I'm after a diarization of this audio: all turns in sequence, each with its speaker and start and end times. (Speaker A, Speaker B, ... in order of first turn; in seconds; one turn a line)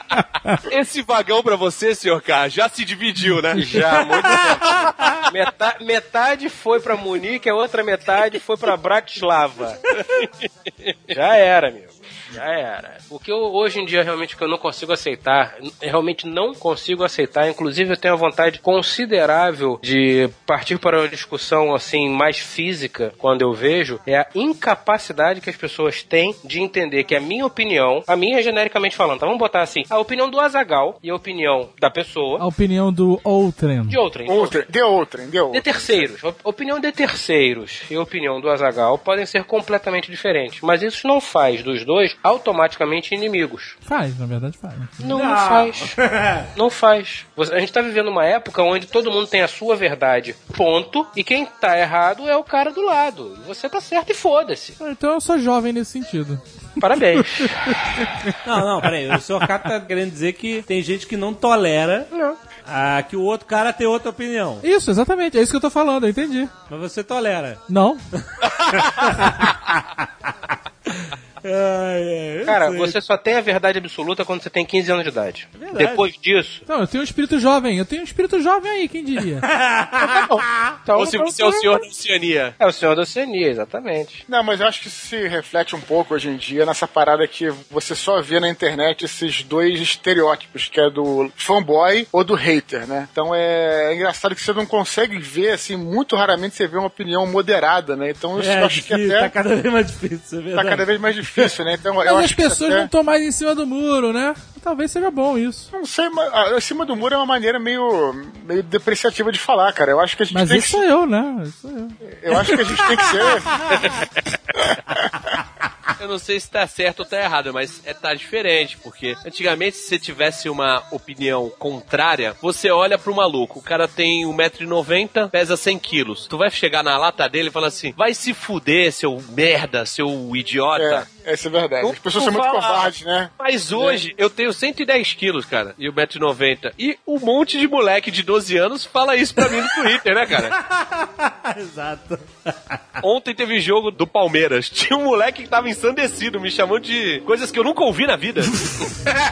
Speaker A: 0.7-4.4
Speaker B: 3.5-9.8
Speaker A: 9.9-10.2
Speaker B: 11.1-32.4
Speaker C: 32.4-34.0
Speaker B: 33.9-34.6
Speaker D: 34.3-36.0
Speaker B: 35.5-43.8
Speaker C: 43.9-44.9
Speaker B: 45.0-46.0
Speaker E: 45.0-46.5
Speaker B: 46.5-54.8
Speaker C: 54.8-56.4
Speaker B: 56.8-57.7
Speaker E: 58.4-62.1
Speaker B: 62.1-62.4
Speaker E: 62.6-64.6
Speaker C: 64.6-66.5
Speaker E: 66.7-70.3
Speaker C: 67.7-68.0
Speaker E: 70.9-73.0
Speaker B: 72.4-76.6
Speaker E: 75.5-76.1
Speaker C: 76.7-79.5
Speaker E: 79.4-80.7
Speaker B: 80.0-81.8
Speaker A: 80.9-82.5
Speaker B: 82.6-84.2
Speaker D: 84.3-99.3
Speaker E: 98.3-101.5
Speaker D: 100.5-102.9
Speaker C: 102.0-105.7
Speaker D: 105.7-110.8
Speaker C: 110.3-112.0
Speaker D: 112.0-113.9
Speaker A: 113.7-114.1
Speaker D: 114.7-115.1
Speaker A: 116.0-131.1
Speaker D: 130.7-133.3
Speaker A: 131.8-140.6
Speaker E: 140.3-143.0
Speaker A: 143.0-148.9